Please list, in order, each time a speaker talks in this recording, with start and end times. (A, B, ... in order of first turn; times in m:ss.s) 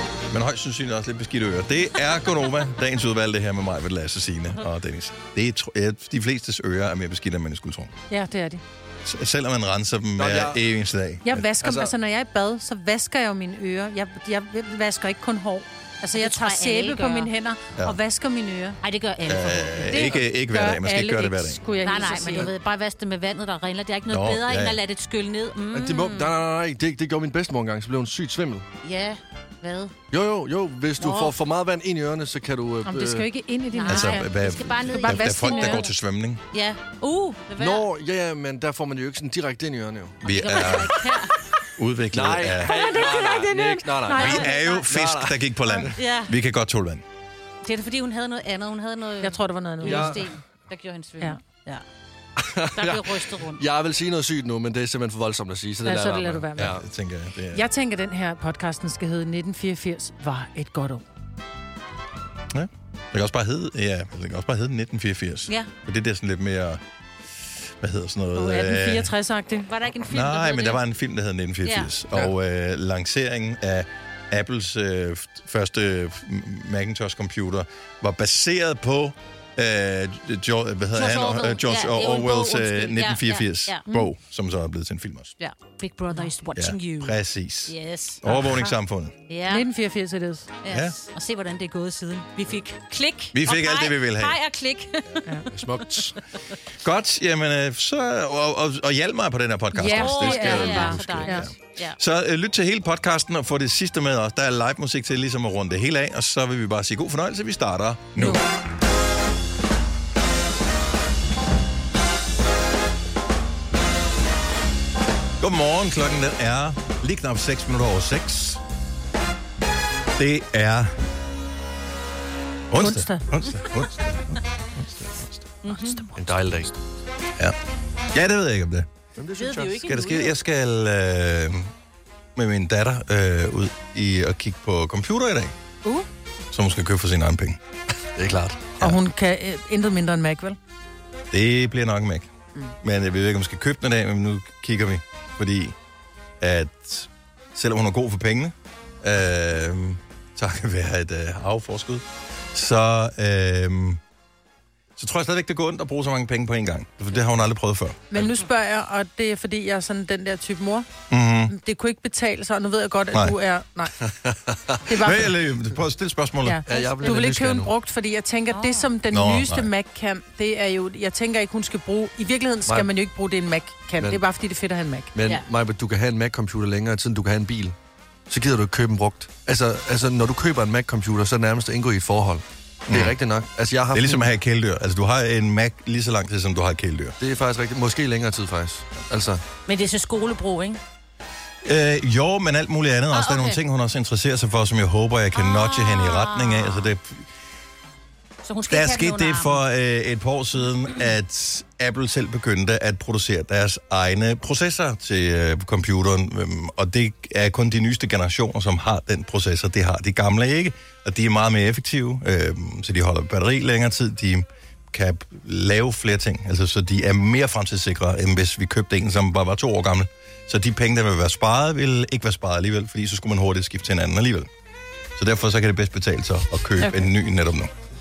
0:00.3-0:07.9 A
0:08.1-0:08.6 B
0:09.0-0:11.5 A
0:10.2-0:10.6 C
0:11.2-0:18.8 B
0:11.6-0:11.9 C
0:16.2-0:17.3 D
0:18.8-0:20.1 D
0:19.3-0:21.6 A
0:20.0-0:20.2 C
0:20.5-0:22.5 B
0:21.8-0:26.3 D
0:24.1-0:24.8 A
0:25.7-0:28.7 C
0:28.8-0:29.9 D
0:30.1-0:33.3 C
0:31.0-0:31.3 D
0:32.8-0:34.3 B
0:33.7-0:35.9 D
0:33.9-0:36.4 A
0:34.9-0:35.8 B
0:36.5-0:37.9 D
0:37.6-0:40.8 C
0:40.2-0:41.0 A
0:40.3-0:41.3 D
0:41.8-0:42.8 A
0:42.1-0:45.4 C
0:42.6-0:44.7 B
0:44.1-0:44.8 D
0:44.2-0:47.0 A
0:46.0-0:46.3 D
0:47.6-0:51.8 D
0:49.2-0:50.2 B
0:49.8-0:50.3 C
0:52.4-0:56.8 C
0:52.8-0:53.6 D
0:55.8-0:56.7 B
0:56.6-0:57.7 A
0:57.5-1:01.0 B
1:02.5-1:06.8 A
1:07.8-1:09.1 A
1:08.4-1:09.7 B
1:09.7-1:10.8 D
1:10.1-1:25.3 A
1:11.6-1:11.9 D
1:20.9-1:23.8 D
1:25.4-1:27.2 D
1:26.6-1:29.2 A
1:27.7-1:28.7 D
1:29.3-1:29.7 D
1:29.5-1:30.5 B
1:30.6-1:35.4 D
1:30.7-1:31.0 A
1:33.3-1:34.4 A
1:35.5-1:36.2 C
1:36.8-1:48.4 A
1:39.7-1:41.5 B
1:39.9-1:42.0 D
1:48.2-1:48.4 B
1:55.4-1:58.6 A
2:00.2-2:00.9 A
2:02.7-2:05.6 A
2:02.8-2:03.3 B
2:05.6-2:06.1 D
2:05.7-2:06.0 B
2:06.2-2:06.8 C
2:08.1-2:08.9 A
2:09.2-2:09.8 C
2:09.4-2:10.3 D
2:09.8-2:11.7 A
2:12.4-2:15.6 A
2:16.5-2:17.6 A
2:18.2-2:18.8 C
2:18.8-2:20.6 B
2:21.3-2:22.3 A
2:22.8-2:25.8 A
2:26.4-2:34.0 A
2:35.0-2:38.1 A
2:38.1-2:40.9 B
2:41.1-2:41.5 A
2:41.5-2:43.9 B
2:44.0-2:44.8 C
2:44.9-2:45.3 B
2:45.0-2:46.6 A
2:46.4-2:55.1 B
2:46.7-2:47.7 C
2:48.5-2:48.9 D
2:49.1-2:49.7 A
2:55.2-2:57.8 C
2:58.3-3:04.3 C
3:02.9-3:03.2 A
3:03.9-3:07.2 A
3:07.2-3:09.4 C
3:09.7-3:10.8 D
3:11.6-3:17.3 A
3:13.1-3:13.6 D
3:15.4-3:16.9 D
3:18.4-3:19.6 D
3:18.7-3:44.5 A
3:45.2-3:47.7 A